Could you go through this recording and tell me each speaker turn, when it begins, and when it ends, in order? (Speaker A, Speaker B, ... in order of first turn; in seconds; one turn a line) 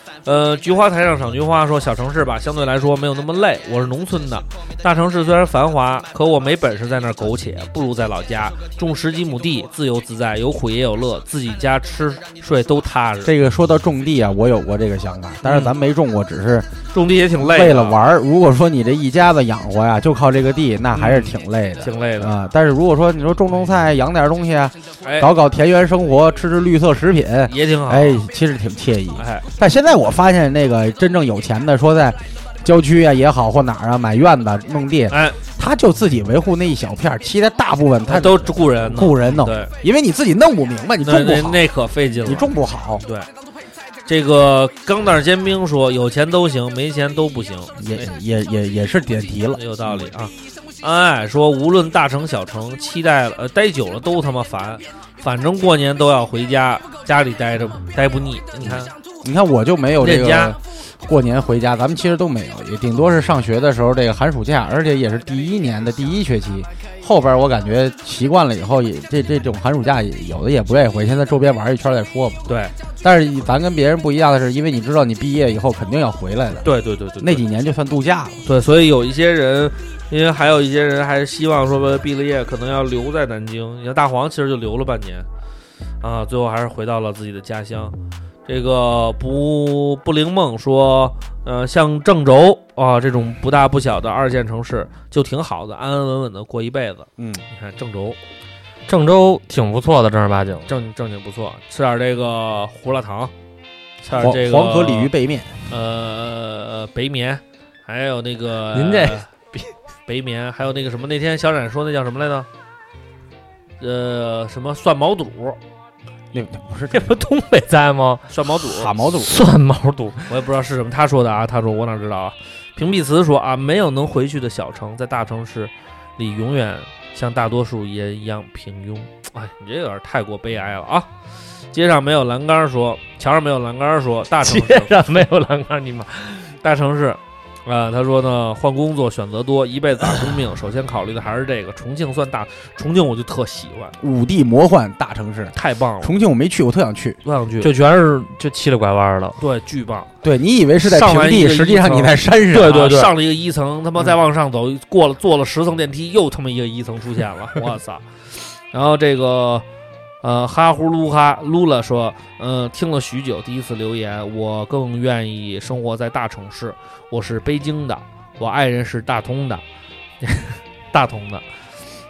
Speaker A: 0.2-13.3
Speaker B: 13.2-16.7
Speaker A: 15.4-15.7
Speaker A: 16.9-18.0
Speaker B: 17.4-41.7
Speaker A: 20.9-22.3
Speaker A: 25.0-25.3
Speaker A: 27.5-28.2
Speaker A: 29.2-29.5
Speaker A: 35.1-35.4
Speaker A: 38.1-39.7
Speaker A: 41.0-42.5
Speaker B: 42.2-43.0
Speaker A: 43.0-43.3
Speaker A: 44.1-48.1
Speaker B: 47.8-50.1
Speaker A: 49.5-58.9
Speaker B: 58.6-72.4
Speaker A: 60.0-60.5
Speaker A: 72.5-72.7
Speaker B: 73.0-76.7
Speaker A: 76.7-77.4
Speaker B: 77.2-78.4
Speaker A: 78.5-85.3
Speaker A: 86.0-88.0
Speaker A: 88.5-98.2
Speaker B: 97.2-97.4
Speaker C: 98.9-100.7
Speaker A: 100.7-103.3
Speaker A: 104.0-105.1
Speaker B: 104.2-105.6
Speaker A: 105.7-109.3
Speaker C: 108.7-109.7
Speaker A: 110.1-112.5
Speaker A: 113.8-115.6
Speaker B: 116.3-117.2
Speaker C: 116.9-118.3
Speaker A: 118.3-118.9
Speaker B: 118.7-119.3
Speaker C: 119.2-120.2
Speaker A: 120.3-131.1
Speaker A: 131.7-134.9
Speaker C: 134.4-136.5
Speaker A: 136.6-144.0
Speaker B: 144.0-147.2
Speaker A: 145.5-146.1
Speaker A: 147.2-147.7
Speaker C: 147.6-149.4
Speaker A: 149.4-150.1
Speaker B: 150.2-152.8
Speaker A: 150.8-159.7
Speaker C: 152.5-153.1
Speaker A: 160.2-169.6
Speaker A: 170.2-171.4